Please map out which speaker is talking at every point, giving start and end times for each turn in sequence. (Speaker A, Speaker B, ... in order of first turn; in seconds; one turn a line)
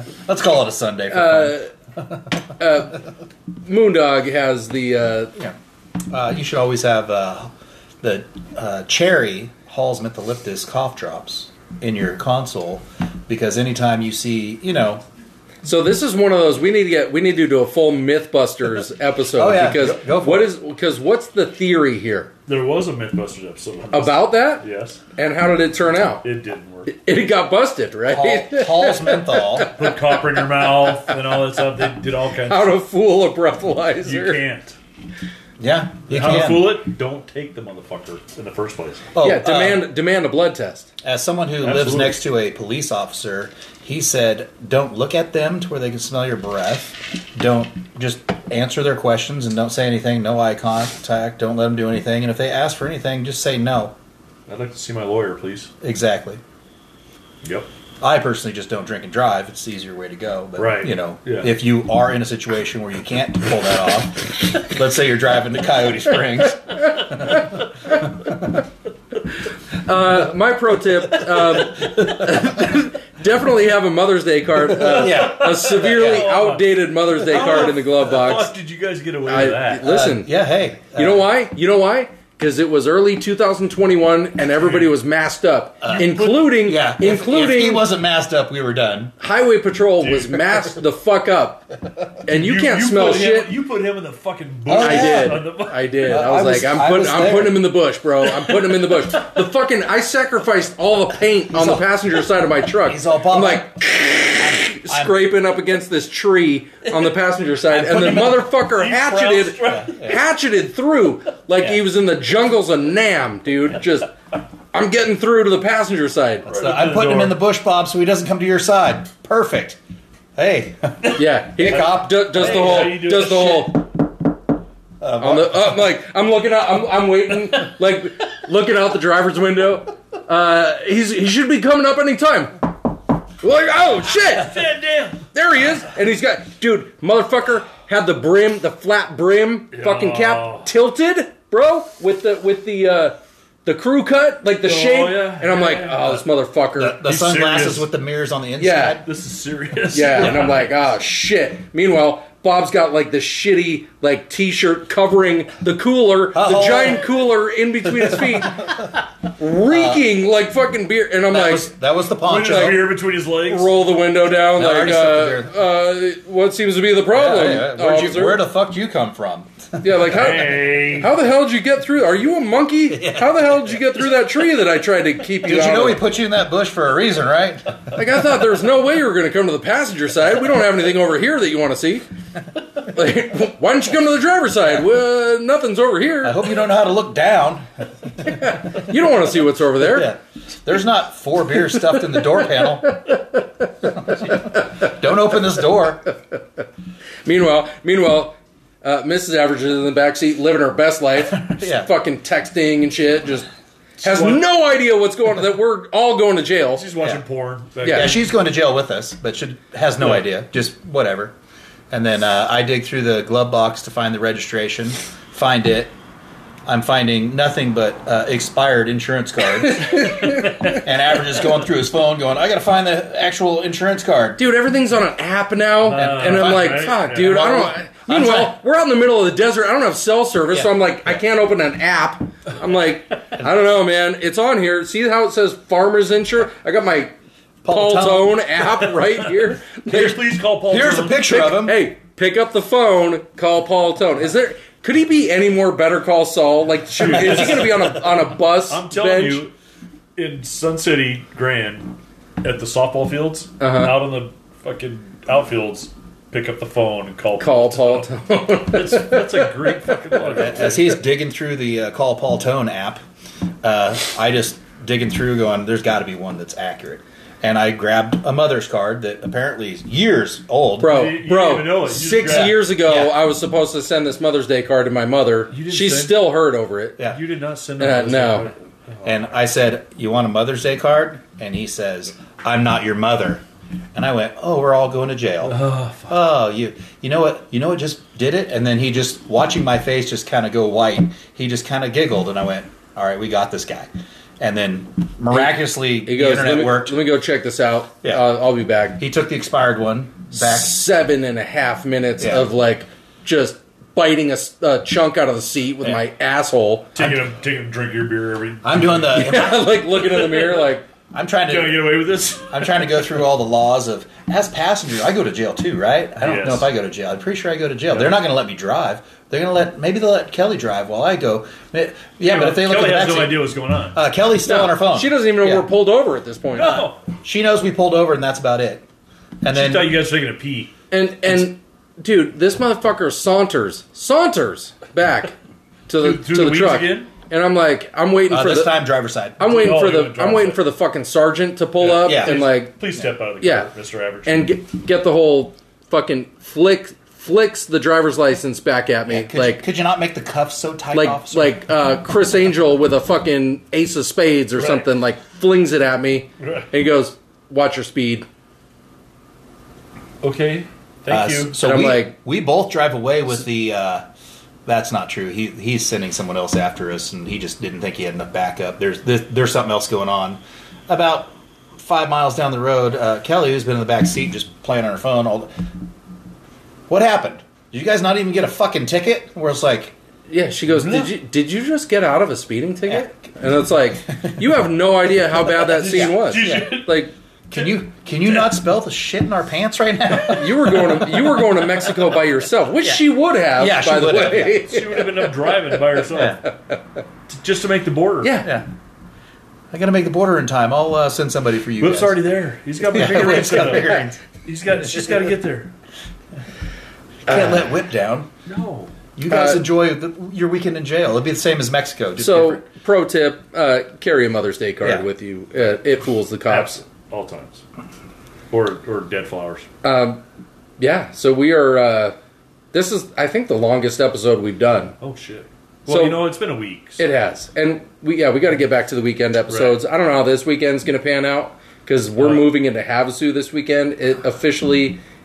Speaker A: 0.2-1.6
Speaker B: 1.1-1.7
Speaker B: 2.6-3.0
Speaker B: 3.6-5.3
Speaker A: 6.1-15.0
Speaker B: 15.6-22.3
Speaker A: 19.4-20.5
Speaker C: 22.5-25.0
Speaker B: 23.9-26.2
Speaker C: 26.2-26.9
Speaker B: 26.9-30.2
Speaker A: 28.1-29.7
Speaker C: 29.7-32.8
Speaker B: 32.4-34.4
Speaker C: 34.0-34.8
Speaker A: 35.6-36.8
Speaker C: 36.1-39.1
Speaker A: 39.1-39.8
Speaker B: 39.2-40.9
Speaker A: 41.0-53.9
Speaker C: 41.6-42.1
Speaker C: 54.5-55.7
Speaker A: 55.8-56.4
Speaker C: 57.4-57.7
Speaker A: 58.0-68.4
Speaker C: 60.6-61.5
Speaker B: 69.7-78.5
Speaker A: 74.9-76.2
Speaker C: 74.9-79.8
Speaker A: 77.3-77.7
Speaker B: 79.2-80.3
Speaker A: 79.8-81.3
Speaker B: 80.9-87.8
Speaker C: 84.6-84.9
Speaker C: 85.8-86.5
Speaker A: 86.6-89.1
Speaker B: 89.2-91.7
Speaker C: 90.0-90.6
Speaker B: 92.2-93.5
Speaker C: 92.3-96.2
Speaker A: 94.7-95.5
Speaker B: 94.8-114.1
Speaker A: 96.1-97.6
Speaker C: 98.4-98.9
Speaker A: 101.5-101.9
Speaker A: 102.8-103.8
Speaker A: 104.3-105.2
Speaker A: 107.7-108.4
Speaker C: 107.9-110.1
Speaker A: 109.7-110.2
Speaker B: 114.7-116.5
Speaker A: 116.5-119.8
Speaker C: 116.5-117.4
Speaker A: 120.3-123.6
Speaker B: 121.1-123.8
Speaker C: 122.3-123.7
Speaker A: 125.0-125.8
Speaker B: 125.2-132.5
Speaker B: 133.4-134.7
Speaker C: 134.2-135.3
Speaker B: 135.3-147.0
Speaker C: 139.7-140.7
Speaker C: 144.6-146.2
Speaker A: 146.8-149.1
Speaker C: 147.0-147.9
Speaker B: 148.6-149.0
Speaker C: 149.0-150.6
Speaker B: 149.9-158.8
Speaker A: 150.1-150.6
Speaker A: 156.3-157.1
Speaker A: 157.8-158.9
Speaker B: 159.4-161.7
Speaker A: 159.7-160.0
Speaker A: 161.3-162.8
Speaker C: 162.2-163.7
Speaker B: 162.4-162.8
Speaker B: 163.4-168.4
Speaker A: 164.5-165.6
Speaker A: 167.1-170.5
Speaker B: 169.8-176.0
Speaker C: 170.1-171.1
Speaker A: 172.9-173.8
Speaker A: 175.4-177.9
Speaker B: 177.9-182.0
Speaker B: 182.8-186.4
Speaker A: 186.2-187.7
Speaker B: 188.2-190.1
Speaker A: 188.2-188.9
Speaker A: 189.8-192.9
Speaker A: 193.8-196.1
Speaker B: 197.2-203.5
Speaker A: 201.3-201.9
Speaker B: 204.0-206.9
Speaker C: 204.0-204.4
Speaker C: 206.8-208.2
Speaker B: 207.8-208.1
Speaker A: 207.8-211.3
Speaker A: 211.9-215.9
Speaker A: 216.7-224.4
Speaker B: 219.6-220.8
Speaker B: 224.4-237.1
Speaker C: 225.8-227.6
Speaker A: 225.9-228.6
Speaker A: 230.5-231.2
Speaker A: 237.6-238.8
Speaker B: 237.7-240.2
Speaker C: 239.8-241.4
Speaker A: 240.7-241.8
Speaker B: 241.2-249.4
Speaker C: 247.0-247.7
Speaker A: 247.2-247.8
Speaker C: 248.7-249.5
Speaker C: 250.2-258.1
Speaker B: 253.6-254.0
Speaker B: 257.4-260.3
Speaker C: 258.7-261.0
Speaker A: 260.4-263.0
Speaker A: 263.6-270.9
Speaker B: 270.8-277.0
Speaker C: 270.8-272.6
Speaker A: 272.3-273.2
Speaker C: 275.5-276.2
Speaker C: 277.1-279.2
Speaker B: 277.8-278.5
Speaker A: 279.0-283.4
Speaker A: 283.9-297.0
Speaker C: 285.4-286.2
Speaker B: 295.3-299.0
Speaker A: 298.0-298.4
Speaker A: 299.0-300.8
Speaker B: 300.3-306.9
Speaker A: 302.2-302.5
Speaker C: 306.9-309.4
Speaker A: 308.6-309.8
Speaker B: 309.1-310.8
Speaker C: 310.0-310.7
Speaker A: 311.1-325.7
Speaker C: 311.5-313.2
Speaker C: 316.2-316.7
Speaker C: 322.2-324.0
Speaker B: 324.4-326.9
Speaker C: 326.5-327.0
Speaker A: 327.2-328.8
Speaker A: 329.4-330.0
Speaker C: 329.5-330.7
Speaker B: 330.9-335.3
Speaker B: 335.9-338.8
Speaker C: 336.0-337.1
Speaker A: 338.3-339.4
Speaker B: 339.4-342.7
Speaker C: 339.4-340.6
Speaker C: 341.8-344.5
Speaker A: 342.0-342.4
Speaker B: 343.4-343.7
Speaker B: 344.2-349.6
Speaker A: 349.1-351.6
Speaker B: 350.9-358.2
Speaker C: 354.6-354.9
Speaker C: 356.4-356.7
Speaker C: 360.2-361.6
Speaker A: 361.1-364.0
Speaker B: 361.6-362.1
Speaker A: 364.6-375.5
Speaker A: 376.9-379.9
Speaker B: 380.3-387.1
Speaker C: 385.6-387.0
Speaker A: 385.9-386.8
Speaker A: 387.5-391.4
Speaker C: 387.5-388.5
Speaker B: 390.3-395.2
Speaker A: 392.8-394.6
Speaker C: 394.6-396.4
Speaker B: 396.4-396.8
Speaker C: 397.3-398.4
Speaker B: 398.2-398.5
Speaker A: 399.7-402.2
Speaker C: 401.8-405.7
Speaker A: 402.8-404.2
Speaker B: 407.3-407.6
Speaker A: 407.3-408.3
Speaker C: 408.4-408.9
Speaker A: 409.1-412.6
Speaker B: 409.3-409.6
Speaker B: 412.2-416.8
Speaker C: 416.5-417.6
Speaker C: 418.5-419.7
Speaker B: 419.8-420.2
Speaker B: 420.8-422.1
Speaker B: 422.7-424.9
Speaker C: 425.0-427.0
Speaker B: 425.9-426.2
Speaker B: 427.0-435.0
Speaker C: 429.5-429.8
Speaker C: 432.2-432.5